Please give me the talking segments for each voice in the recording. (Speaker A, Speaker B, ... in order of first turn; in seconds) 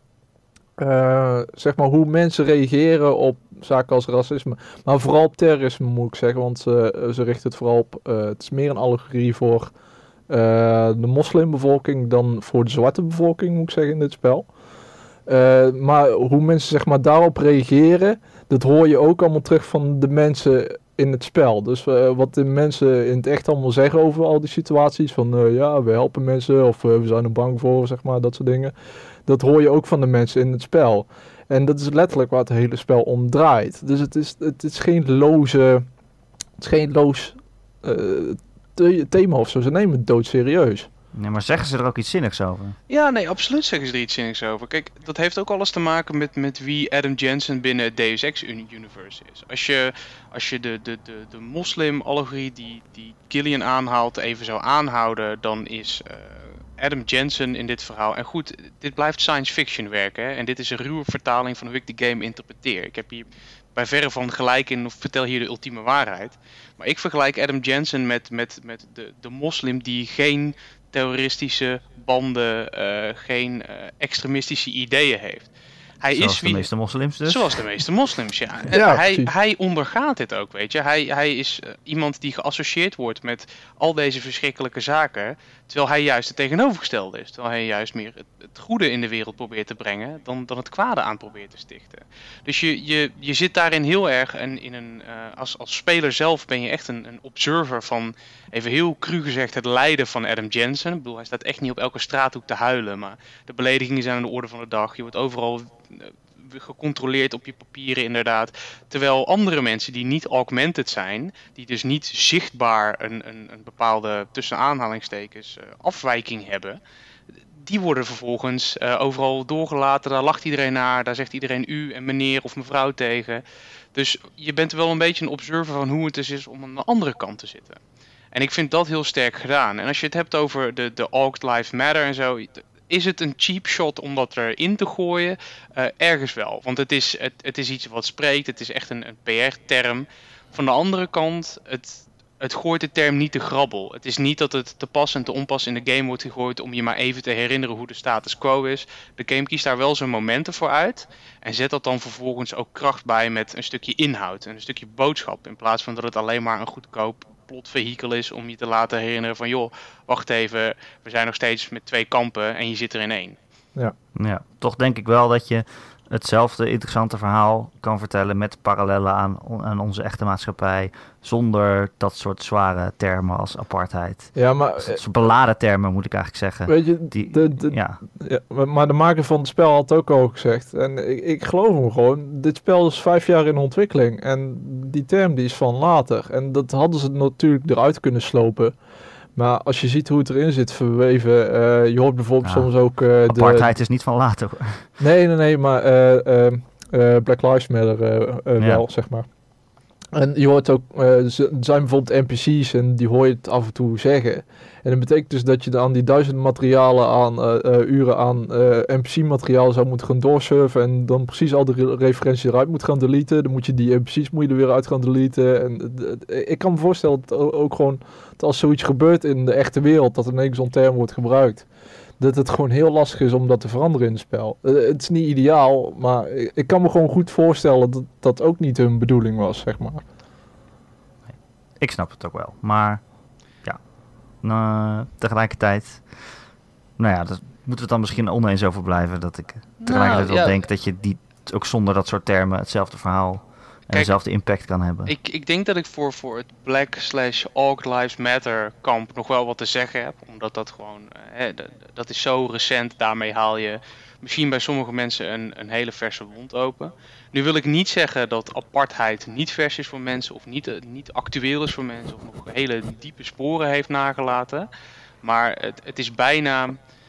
Speaker A: 0.8-9.7, 10.3-14.5, 15.3-28.7, 29.2-35.9, 36.6-40.9, 78.7-79.3, 174.3-175.0, 176.7-188.7, 189.3-193.7, 195.0-199.3, 200.1-221.7, 222.2-230.0
Speaker B: 41.1-42.8, 76.1-77.6, 164.1-178.0, 192.4-194.9, 198.6-198.8, 231.3-233.0, 234.4-236.3, 237.0-245.1
Speaker C: 42.9-76.7, 77.2-116.8, 117.6-123.4, 123.9-127.8, 128.3-163.4, 239.8-240.6, 245.1-264.7, 265.2-266.8